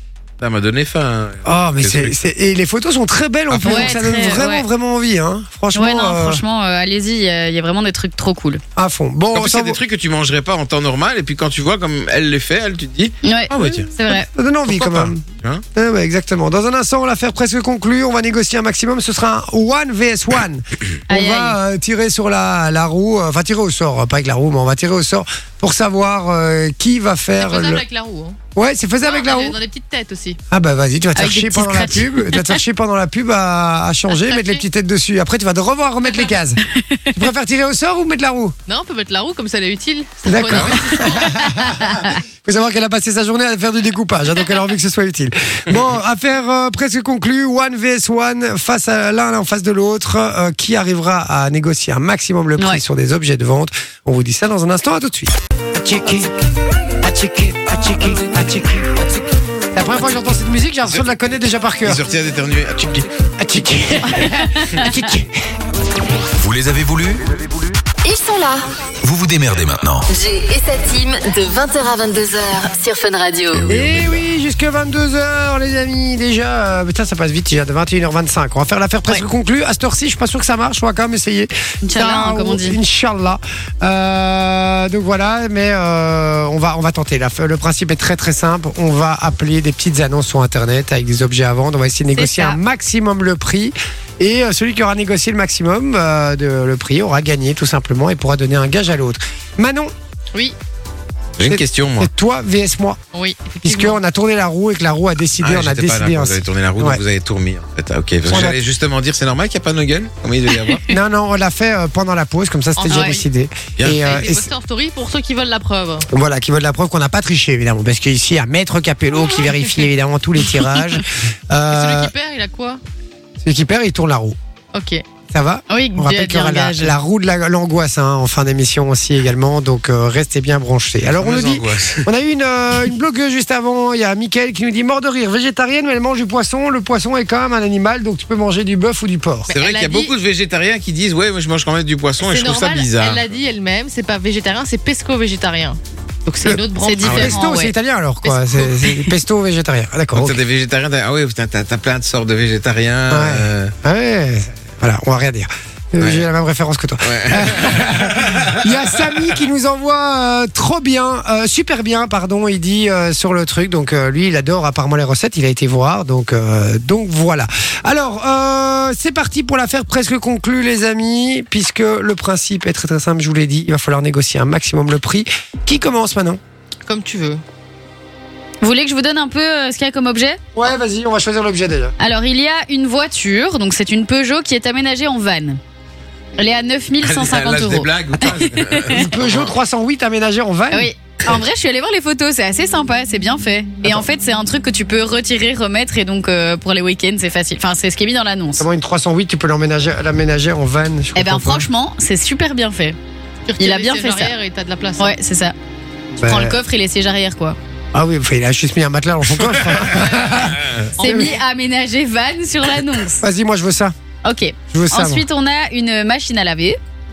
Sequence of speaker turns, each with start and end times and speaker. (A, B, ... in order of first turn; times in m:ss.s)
0:00.4-0:02.2 A
0:01.4-0:06.4 B
0:03.5-0:04.0 A
0:03.6-0:04.6 C
0:05.7-0:08.6 C
0:08.8-0:09.8 B
0:09.3-0:13.9 A
0:13.2-0:14.3 C
0:13.6-0:15.2 B
0:14.7-0:15.6 A
0:15.7-0:27.8 B
0:21.1-0:21.6 C
0:27.4-0:28.4 D
0:28.5-0:29.6 B
0:29.0-0:30.4 D
0:30.5-0:36.6 B
0:31.2-0:32.6 C
0:34.3-0:34.6 D
0:36.7-0:37.1 C
0:37.1-0:38.5 B
0:38.7-0:41.7 D
0:40.2-0:56.3 B
0:57.0-0:59.0 B
0:59.7-1:02.0 B
1:01.8-1:03.1 A
1:03.4-1:05.3 B
1:04.1-1:05.0 C
1:06.4-1:07.3 E
1:08.0-1:08.7 F
1:09.0-1:10.0 E
1:10.1-1:13.7 F
1:13.7-1:39.9 B
1:13.7-1:14.2 A
1:21.8-1:22.8 C
1:32.1-1:32.6 C
1:41.4-1:42.1 A
1:41.4-1:43.0 B
1:43.1-1:44.0 D
1:43.6-1:47.0 B
1:45.4-1:50.8 A
1:48.2-1:48.6 B
1:50.9-1:54.5 B
1:52.8-1:53.2 D
1:53.8-1:54.1 A
1:53.9-1:56.1 D
1:56.1-2:02.1 B
2:01.7-2:02.8 D
2:03.4-2:04.4 B
2:04.7-2:05.0 D
2:05.3-2:19.5 B
2:05.7-2:07.0 C
2:11.2-2:12.0 A
2:19.5-2:20.1 D
2:19.5-2:23.2 A
2:22.2-2:27.4 D
2:26.4-2:30.4 B
2:26.8-2:27.7 C
2:28.3-2:28.6 D
2:30.1-2:33.7 A
2:33.1-2:56.4 B
2:36.0-2:36.2 A
2:37.0-2:39.3 A
2:56.8-2:57.4 D
2:58.6-3:00.4 C
3:00.5-3:01.9 B
3:02.0-3:05.6 C
3:06.4-3:09.0 C
3:07.0-3:09.5 A
3:08.9-3:10.9 B
3:10.7-3:18.7 C
3:18.6-3:21.7 B
3:21.1-3:23.0 C
3:23.4-3:25.2 D
3:23.6-3:24.3 C
3:25.0-3:25.5 C
3:26.1-3:26.6 B
3:26.2-3:27.6 C
3:27.9-3:31.3 B
3:30.0-3:30.4 D
3:31.0-3:31.4 D
3:31.0-3:33.2 C
3:33.2-3:33.9 B
3:34.2-3:36.8 C
3:34.7-3:35.2 B